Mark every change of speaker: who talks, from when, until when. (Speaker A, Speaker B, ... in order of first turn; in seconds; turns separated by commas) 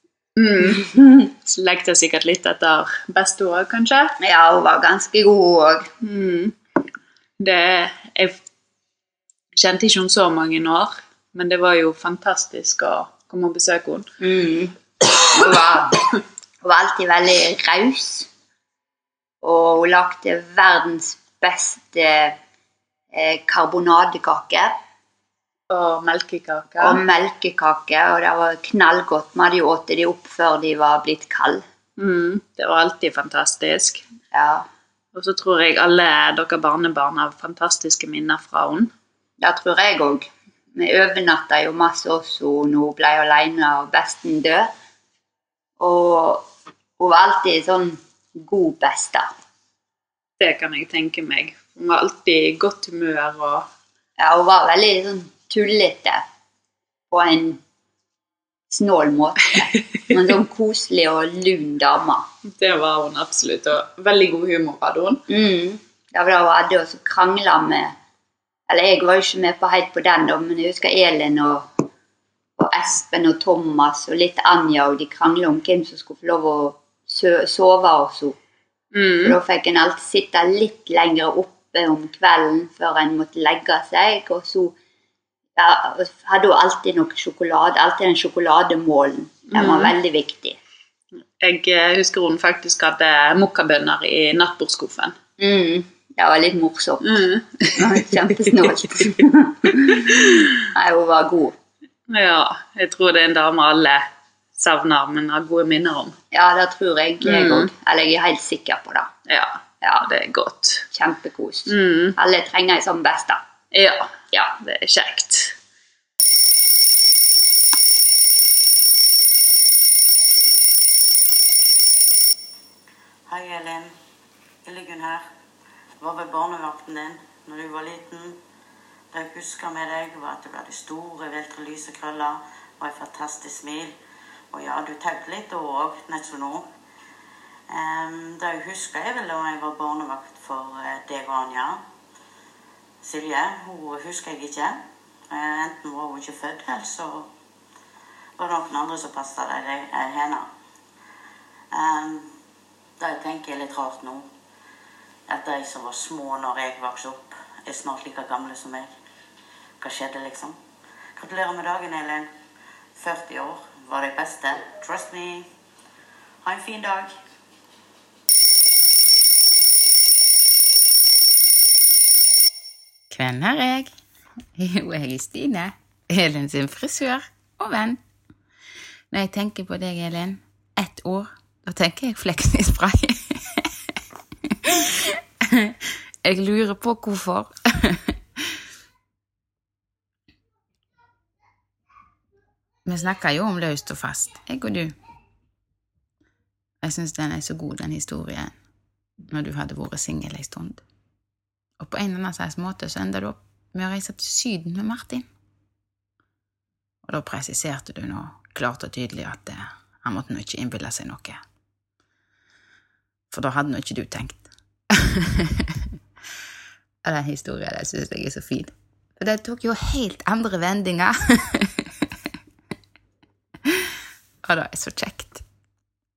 Speaker A: 0.4-4.2, Speaker B: 4.2-5.9, Speaker A: 6.0-6.5, Speaker A: 7.4-8.4, Speaker A: 9.5-14.1, Speaker B: 14.2-14.7, Speaker B: 15.3-16.0, Speaker B: 16.6-18.3, Speaker B: 19.4-22.4, Speaker B: 23.1-24.8, Speaker A: 25.7-27.0, Speaker B: 26.8-31.6, Speaker A: 32.0-34.0, Speaker B: 34.3-34.6, Speaker A: 35.1-38.9, Speaker B: 39.4-44.7, Speaker B: 45.8-46.5, Speaker B: 47.0-49.3, Speaker A: 50.4-53.7, Speaker B: 54.2-56.2, Speaker B: 57.1-57.6, Speaker B: 58.7-62.2, Speaker A: 62.5-65.2, Speaker B: 65.3-67.9, Speaker B: 68.7-71.8, Speaker B: 72.6-78.3, Speaker A: 78.9-79.3, Speaker B: 79.2-84.7, Speaker B: 85.6-90.6, Speaker A: 89.5-89.9, Speaker A: 91.4-95.2, Speaker B: 95.4-101.5, Speaker A: 97.0-99.0, Speaker A: 99.8-100.2, Speaker A: 102.1-104.0, Speaker A: 104.6-106.1, Speaker B: 106.3-109.1, Speaker A: 107.2-107.7, Speaker A: 109.3-110.9, Speaker B: 110.9-113.4, Speaker A: 111.7-112.2, Speaker A: 113.7-115.5, Speaker C: 123.3-124.0, Speaker C: 124.6-125.3, Speaker C: 126.0-128.4, Speaker C: 129.1-133.9, Speaker C: 134.5-136.7, Speaker C: 137.7-141.8, Speaker C: 143.0-147.3, Speaker C: 148.4-150.5, Speaker C: 151.7-152.3, Speaker C: 153.0-154.3, Speaker C: 155.3-158.9, Speaker C: 159.8-160.6, Speaker C: 161.2-162.3, Speaker C: 162.9-165.5, Speaker C: 166.4-167.2, Speaker D: 173.1-173.9, Speaker D: 174.6-178.0, Speaker D: 179.1-183.6, Speaker D: 185.5-188.1, Speaker D: 192.8-194.9, Speaker D: 196.8-198.5, Speaker D: 199.3-200.8, Speaker D: 201.8-205.3, Speaker D: 207.1-211.4, Speaker D: 213.3-215.6, Speaker D: 217.0-221.8, Speaker D: 224.4-225.4